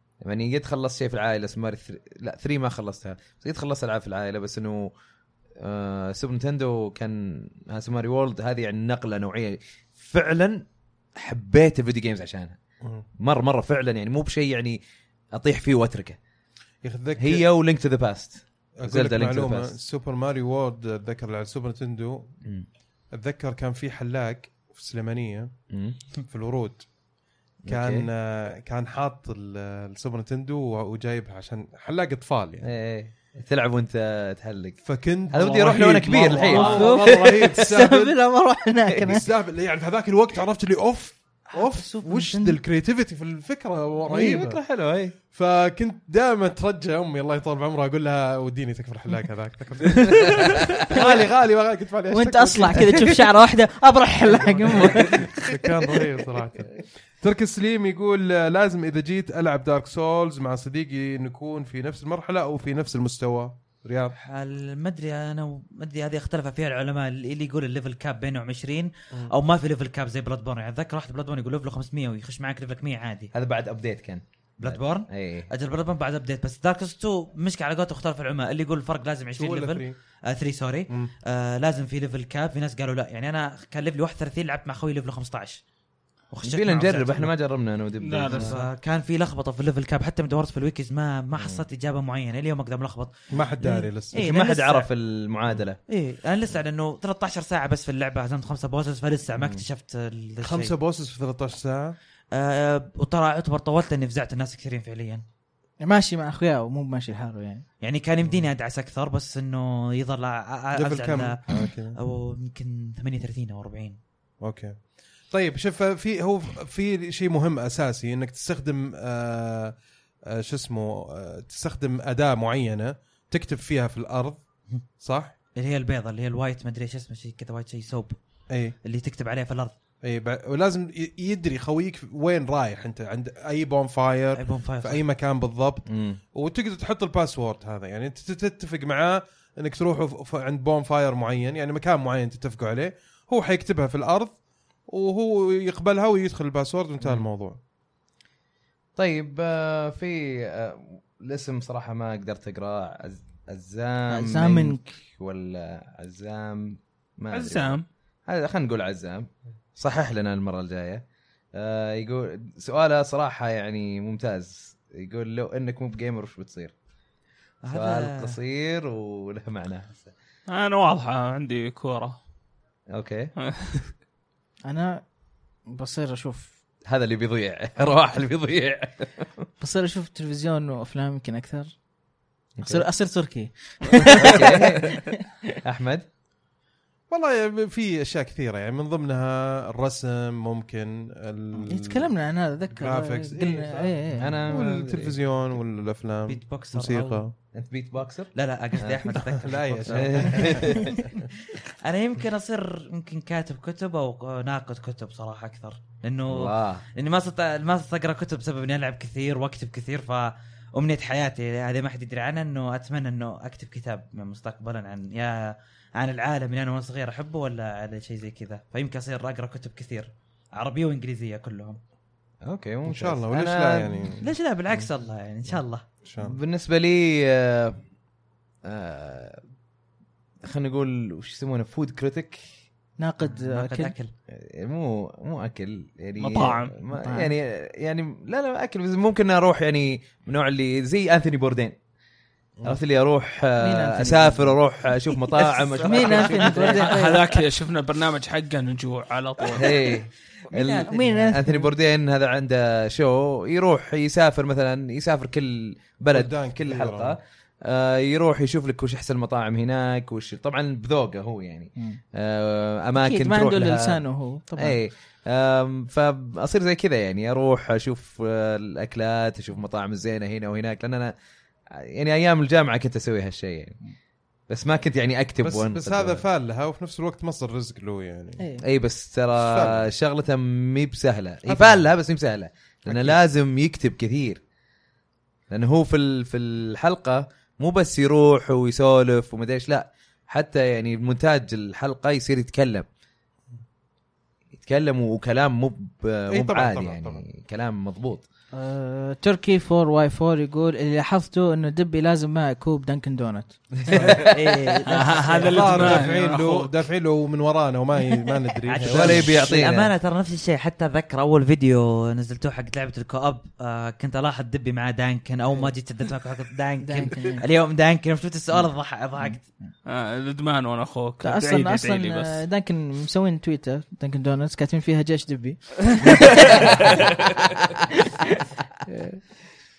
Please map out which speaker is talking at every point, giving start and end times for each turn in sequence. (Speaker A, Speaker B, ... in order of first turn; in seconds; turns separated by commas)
Speaker A: 0.2-4.9, Speaker A: 5.6-10.6, Speaker A: 11.2-12.6, Speaker A: 13.2-14.8, Speaker A: 15.3-16.2, Speaker B: 16.8-17.4, Speaker A: 17.2-19.7, Speaker B: 18.8-22.3, Speaker B: 23.1-25.5, Speaker A: 25.7-26.0, Speaker B: 26.3-26.9, Speaker A: 27.6-28.1, Speaker B: 27.7-32.7, Speaker A: 32.6-37.7, Speaker B: 34.8-38.1, Speaker C: 36.4-39.2, Speaker A: 38.9-39.2, Speaker B: 39.0-44.6, Speaker C: 41.5-42.6, Speaker A: 44.1-45.1, Speaker B: 45.3-53.1, Speaker A: 50.4-50.8, Speaker C: 52.1-55.3, Speaker B: 54.3-64.2, Speaker D: 64.2-73.3, Speaker A: 73.3-75.5, Speaker D: 74.6-85.6, Speaker B: 79.4-80.0, Speaker D: 86.3-87.3, Speaker A: 86.4-88.6, Speaker E: 88.0-88.6, Speaker D: 88.3-94.9, Speaker A: 91.4-91.6, Speaker B: 93.3-94.2, Speaker A: 94.1-95.8, Speaker D: 95.9-100.7, Speaker A: 99.4-99.6, Speaker B: 100.4-102.0, Speaker D: 102.3-105.2, Speaker C: 105.8-107.7, Speaker D: 107.8-114.0, Speaker B: 110.8-112.0, Speaker B: 114.4-114.8, Speaker B: 115.3-119.7, Speaker B: 120.3-124.4, Speaker B: 125.0-125.3, Speaker D: 125.5-128.2, Speaker B: 128.5-128.7, Speaker D: 128.8-129.7, Speaker B: 130.0-144.3, Speaker D: 134.3-135.0, Speaker A: 135.9-136.2, Speaker B: 144.9-147.6, Speaker A: 148.9-161.0, Speaker C: 154.1-154.9, Speaker E: 157.3-157.8, Speaker A: 161.5-166.7, Speaker D: 167.6-168.3, Speaker A: 167.7-170.1, Speaker E: 170.5-172.2, Speaker A: 172.9-173.3, Speaker E: 173.4-173.8, Speaker C: 174.7-175.0, Speaker C: 175.7-176.5, Speaker A: 176.9-179.5, Speaker C: 179.6-181.7, Speaker A: 182.6-182.9, Speaker C: 182.6-185.2, Speaker A: 184.0-185.0, Speaker A: 185.6-186.0, Speaker B: 187.1-192.1, Speaker C: 191.6-194.4, Speaker B: 192.7-197.3, Speaker A: 194.2-195.2, Speaker D: 196.3-197.2, Speaker A: 197.5-199.0, Speaker D: 198.3-221.8, Speaker B: 199.1-201.2, Speaker A: 199.8-201.0, Speaker A: 206.3-206.8, Speaker A: 222.4-224.1, Speaker B: 222.8-224.2, Speaker D: 224.2-225.8, Speaker B: 226.0-226.4, Speaker A: 226.2-227.8, Speaker A: 228.6-229.4, Speaker A: 230.4-232.4, Speaker C: 233.0-233.9, Speaker D: 233.2-234.1, Speaker A: 234.3-241.8, Speaker E: 236.2-236.8, Speaker C: 237.0-237.3, Speaker A: 242.6-247.0, Speaker C: 243.6-244.6, Speaker C: 245.3-247.3, Speaker D: 246.0-246.6, Speaker E: 246.6-249.9, Speaker A: 249.5-264.0, Speaker D: 250.5-251.3, Speaker C: 250.8-251.7, Speaker B: 256.1-257.2, Speaker C: 262.9-264.8, Speaker A: 264.6-271.1, Speaker A: 271.7-273.8, Speaker A: 274.5-276.2, Speaker B: 275.4-278.4, Speaker A: 278.6-284.4, Speaker B: 279.4-279.9, Speaker B: 281.4-281.9, Speaker B: 282.9-283.2, Speaker A: 285.5-292.9, Speaker A: 294.6-298.2, Speaker B: 296.3-297.2, Speaker C: 298.5-305.6, Speaker A: 303.8-304.7, Speaker B: 303.9-304.2, Speaker D: 304.2-305.5, Speaker E: 304.9-306.7, Speaker B: 305.4-309.3, Speaker D: 308.6-319.5, Speaker A: 308.8-309.9, Speaker C: 316.8-317.4, Speaker E: 319.8-322.4, Speaker C: 321.2-327.1, Speaker A: 326.6-326.9, Speaker A: 327.4-327.8, Speaker C: 328.9-329.2